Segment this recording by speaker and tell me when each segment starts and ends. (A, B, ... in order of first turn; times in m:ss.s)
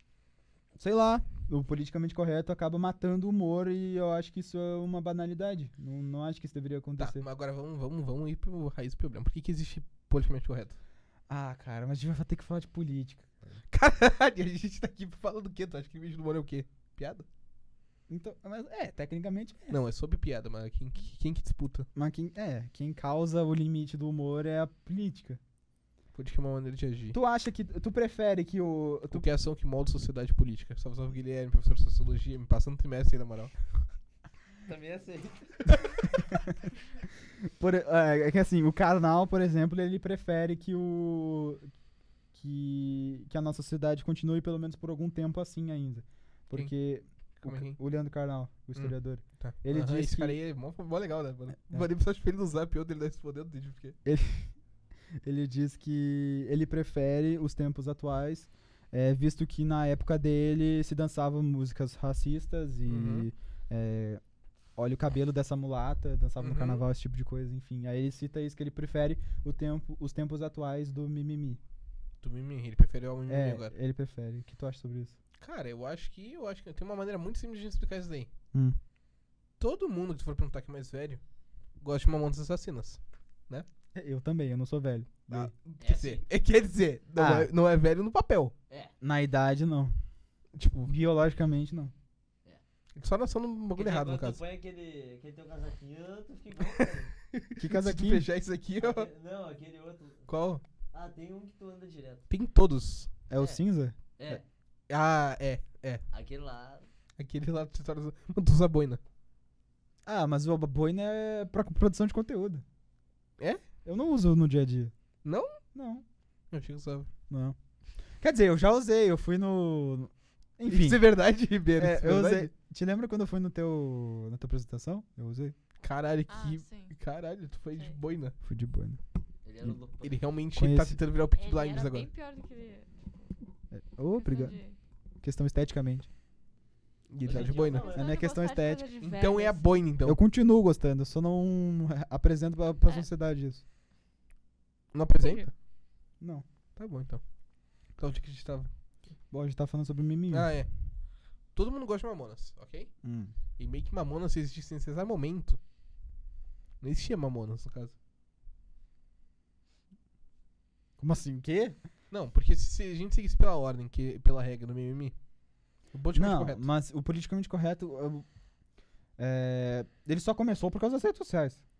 0:00.8-0:07.2 A
0:07.0-0:10.8 B
0:11.3-0:13.6 A
0:13.7-0:17.2 B
0:18.1-0:19.8 A
0:19.7-0:21.9 B
0:21.9-0:25.4 A
0:26.1-0:27.2 B
0:27.1-0:29.2 A
0:29.1-0:33.5 B
0:34.6-0:35.8 C
0:36.2-0:36.6 A
0:37.4-0:41.7 A
0:42.3-0:50.4 A
0:47.4-0:47.8 B
0:48.8-0:54.0 B
0:54.0-0:54.5 A
0:55.2-1:04.2 A
1:02.9-1:03.3 B
1:04.8-1:11.6 A
1:06.4-1:06.8 B
1:12.2-1:13.7 B
1:13.3-1:15.2 A
1:15.4-1:18.3 B
1:19.6-1:21.2 B
1:21.8-1:23.6 B
1:23.9-1:25.5 A
1:25.3-1:28.5 B
1:25.8-1:26.2 C
1:27.2-1:27.5 A
1:29.0-1:30.0 A
1:30.6-1:30.9 B
1:30.8-1:31.9 A
1:32.9-1:34.4 B
1:33.7-1:37.1 C
1:36.8-1:39.1 B
1:37.6-1:38.2 A
1:38.8-1:40.3 C
1:40.3-1:40.6 B
1:40.9-1:42.2 C
1:42.3-1:43.1 B
1:43.3-1:44.4 A
1:44.2-1:44.4 C
1:44.9-1:46.0 B
1:46.1-1:46.9 C
1:47.2-1:49.0 B
1:50.0-1:52.6 A
1:53.8-1:54.9 A
1:55.2-1:55.6 B
1:55.7-1:56.0 A
1:56.5-1:57.1 B
1:57.3-1:57.6 A
1:58.2-2:01.0 A
2:00.7-2:02.5 B
2:01.8-2:05.5 A
2:05.8-2:08.3 B
2:06.3-2:06.9 D
2:07.7-2:08.0 D
2:08.4-2:09.0 A
2:09.4-2:10.2 C
2:10.0-2:12.1 B
2:10.5-2:11.0 A
2:11.4-2:12.9 D
2:13.7-2:14.6 A
2:14.1-2:14.8 D
2:15.2-2:16.1 A
2:17.1-2:17.9 B
2:17.2-2:18.1 C
2:17.3-2:19.8 D
2:17.9-2:18.8 A
2:19.0-2:20.2 B
2:20.0-2:23.6 A
2:24.9-2:25.5 B
2:25.2-2:25.5 D
2:26.2-2:26.4 A
2:26.8-2:27.2 B
2:28.0-2:28.7 B
2:29.3-2:30.5 A
2:30.3-2:30.7 B
2:31.5-2:32.9 B
2:33.0-2:33.3 A
2:33.6-2:35.6 B
2:36.8-2:37.9 B
2:41.0-2:41.8 A
2:42.1-2:45.1 B
2:45.9-2:46.7 B
2:46.1-2:48.2 A
2:49.2-2:51.6 A